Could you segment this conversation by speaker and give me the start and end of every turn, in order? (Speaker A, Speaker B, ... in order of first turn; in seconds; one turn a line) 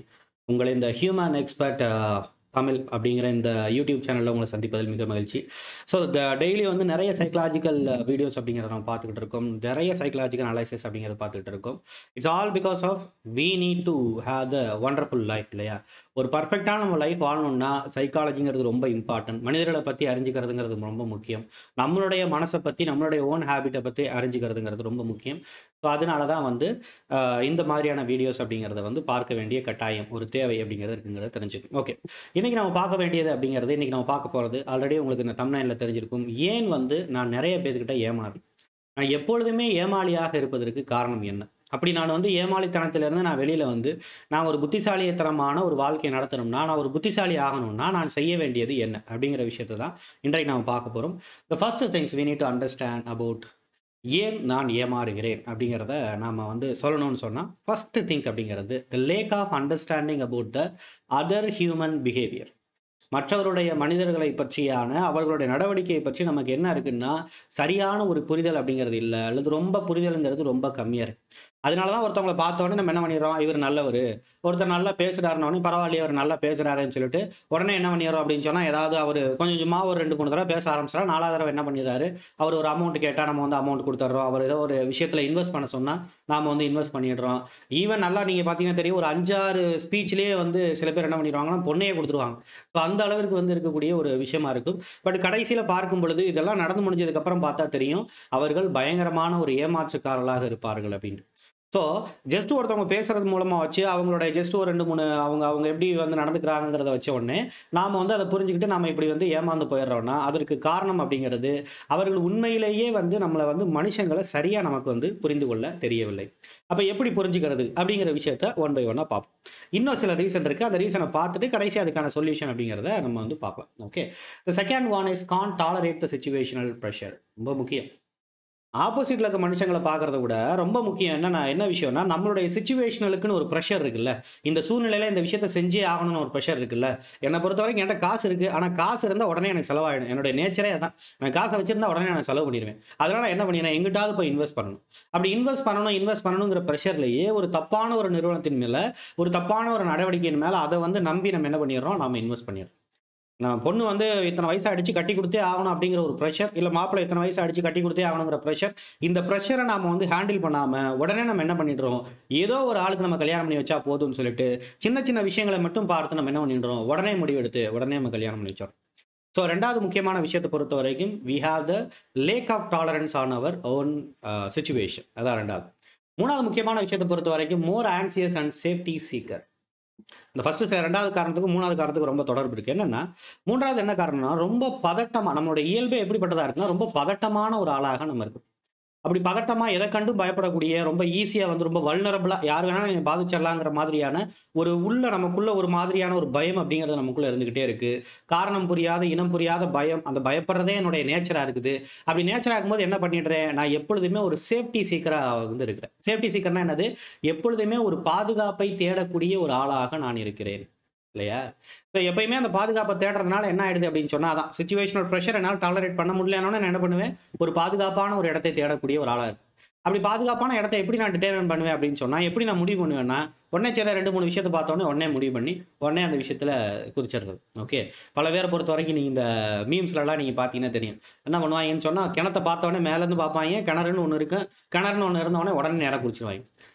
Speaker A: 0.5-38.4
Speaker A: 39.0-53.5
Speaker A: 54.1-60.6
Speaker A: 61.2-62.5
Speaker A: 63.1-71.1
Speaker A: 71.7-127.9
Speaker A: 128.8-152.7
Speaker A: 153.4-168.7
Speaker A: 169.3-175.7
Speaker A: 176.2-179.4
Speaker A: 180.3-188.4
Speaker A: 189.0-211.4
Speaker A: 211.9-236.4